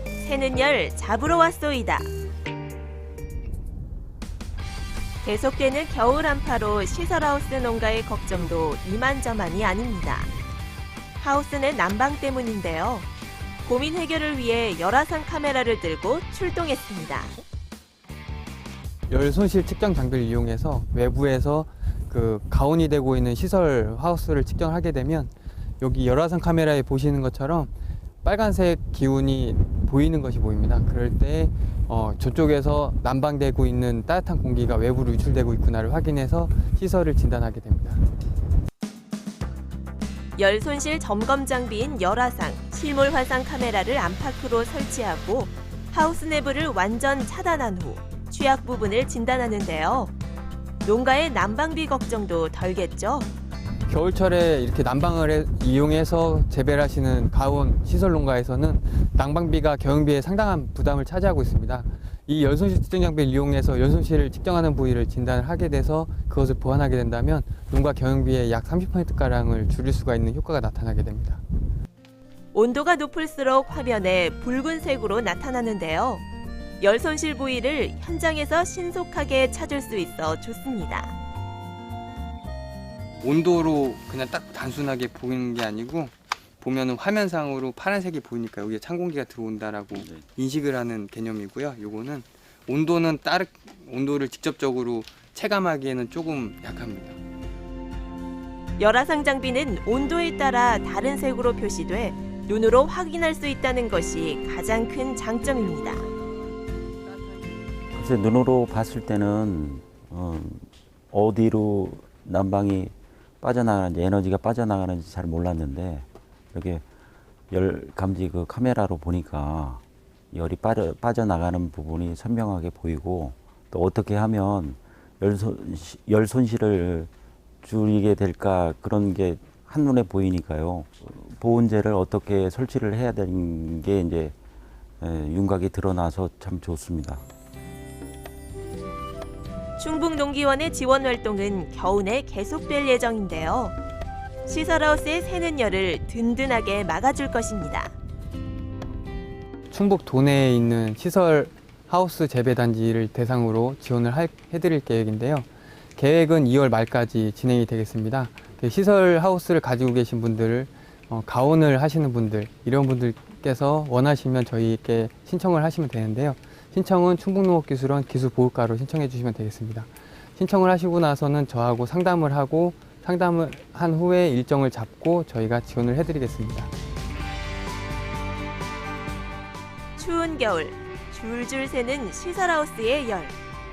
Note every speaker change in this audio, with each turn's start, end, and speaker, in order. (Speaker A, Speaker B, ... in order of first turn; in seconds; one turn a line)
Speaker A: 0.2-2.1
Speaker A: 5.2-10.3
Speaker A: 11.2-13.1
Speaker A: 13.6-17.4
Speaker B: 19.1-27.7
Speaker B: 28.2-38.0
Speaker A: 40.4-50.1
Speaker A: 50.8-53.3
Speaker B: 53.9-71.4
Speaker A: 72.5-76.2
Speaker A: 76.8-81.1
Speaker B: 83.2-97.2
Speaker C: 90.0-90.2
Speaker A: 98.8-106.1
Speaker C: 107.9-116.8
Speaker C: 117.5-127.1
Speaker C: 127.6-134.3
Speaker C: 135.0-137.2
Speaker A: 139.8-143.7
Speaker A: 144.5-147.9
Speaker B: 149.7-176.7
Speaker A: 180.0-183.3